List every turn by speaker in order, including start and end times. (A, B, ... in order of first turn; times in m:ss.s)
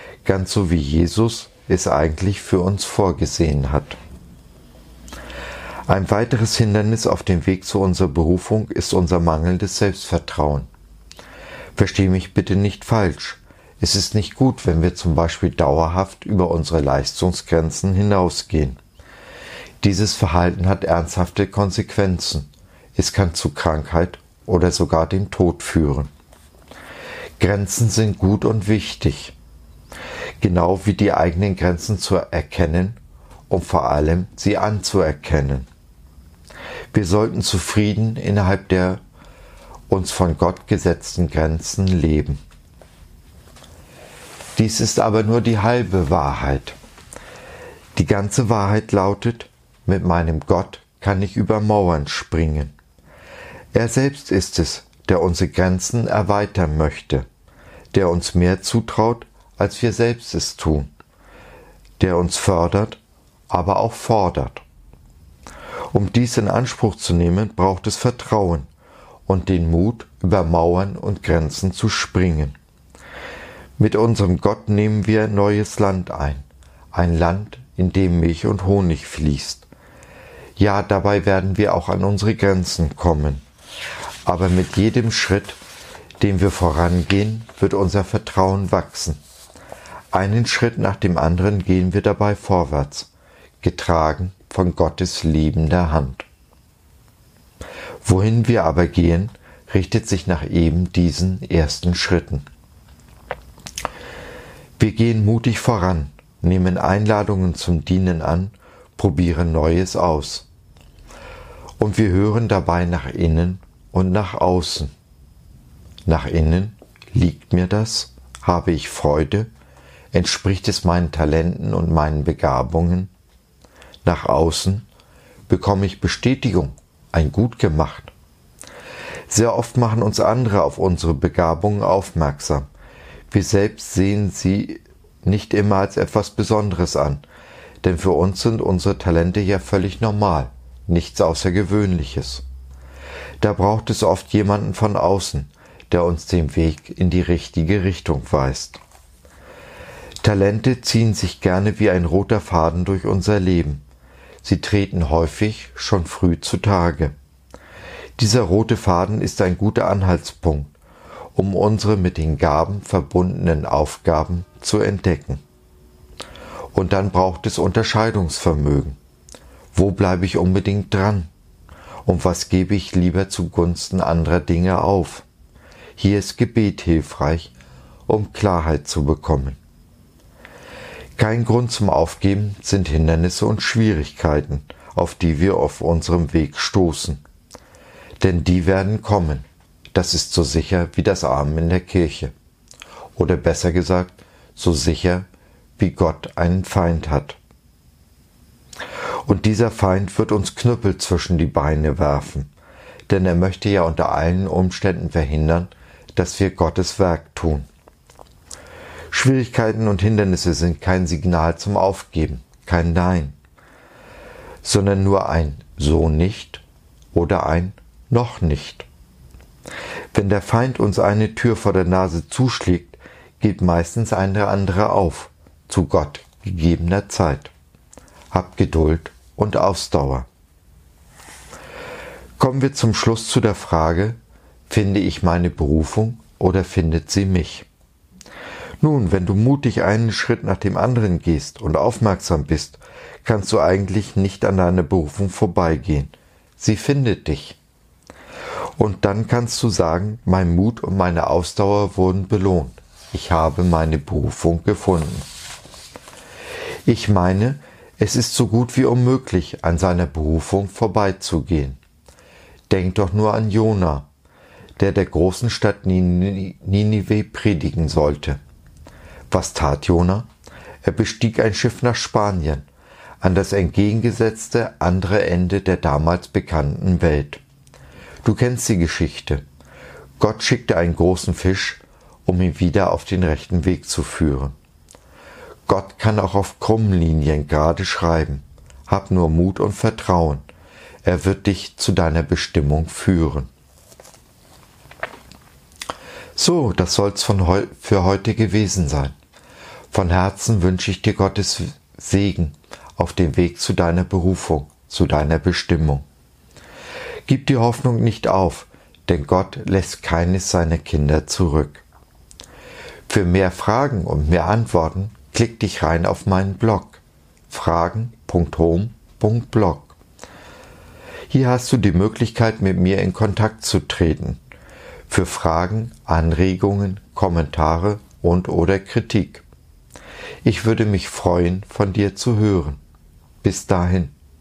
0:00.2-0:04.0 A
0:05.9-0:10.7 A
0:11.8-0:18.8 A
0:19.8-0:26.1 A
0:27.4-0:29.4 A
0:30.4-0:33.0 A
0:33.5-0:35.7 A
0:36.9-0:39.0 A
0:39.9-0:42.4 A
0:44.6-0:46.8 A
0:47.9-0:52.7 A
0:53.7-0:57.2 A
0:57.9-1:00.9 A
1:02.0-1:04.6 A
1:05.9-1:08.7 A
1:09.3-1:12.5 A
1:13.8-1:19.7 A
1:20.6-1:23.4 A
1:24.2-1:25.6 A
1:26.2-1:29.2 A
1:30.1-1:33.1 A
1:33.6-1:36.3 A
1:38.0-1:42.4 A
1:44.8-1:50.5 A
1:51.8-1:54.9 A
1:56.0-1:59.5 A
2:00.1-2:03.1 A
2:04.0-2:04.8 A
2:05.5-2:08.1 A
2:09.3-2:12.7 A
2:13.3-2:17.2 A
2:17.8-2:22.4 A
2:23.4-2:28.8 A
2:30.2-2:33.8 A
2:34.4-2:37.1 A
2:38.2-2:40.7 A
2:41.3-2:45.4 A
2:46.7-2:49.0 A
2:49.7-2:51.3 A
2:52.0-2:55.2 A
2:56.0-2:57.5 A
2:58.1-2:59.6 A
3:01.2-3:07.2 A
3:08.2-3:12.3 A
3:13.2-3:15.3 A
3:15.8-3:17.4 A
3:19.2-3:22.5 A
3:23.1-3:27.7 A
3:29.1-3:33.4 A
3:34.6-3:38.9 A
3:40.1-3:47.5 A
3:48.3-3:50.3 A
3:52.4-3:57.7 A
3:58.8-4:07.6 A
4:08.8-4:15.3 A
4:16.8-4:21.8 A
4:22.7-4:24.1 A
4:24.8-4:28.4 A
4:29.3-4:30.3 A
4:30.8-4:32.7 A
4:33.2-4:37.4 A
4:38.2-4:39.4 A
4:40.2-4:44.5 A
4:45.7-4:50.4 A
4:51.0-4:53.5 A
4:56.4-4:59.2 A
4:59.9-5:06.0 A
5:07.2-5:11.8 A
5:13.1-5:20.0 A
5:21.3-5:24.4 A
5:25.1-5:29.4 A
5:30.4-5:32.8 A
5:33.4-5:34.1 A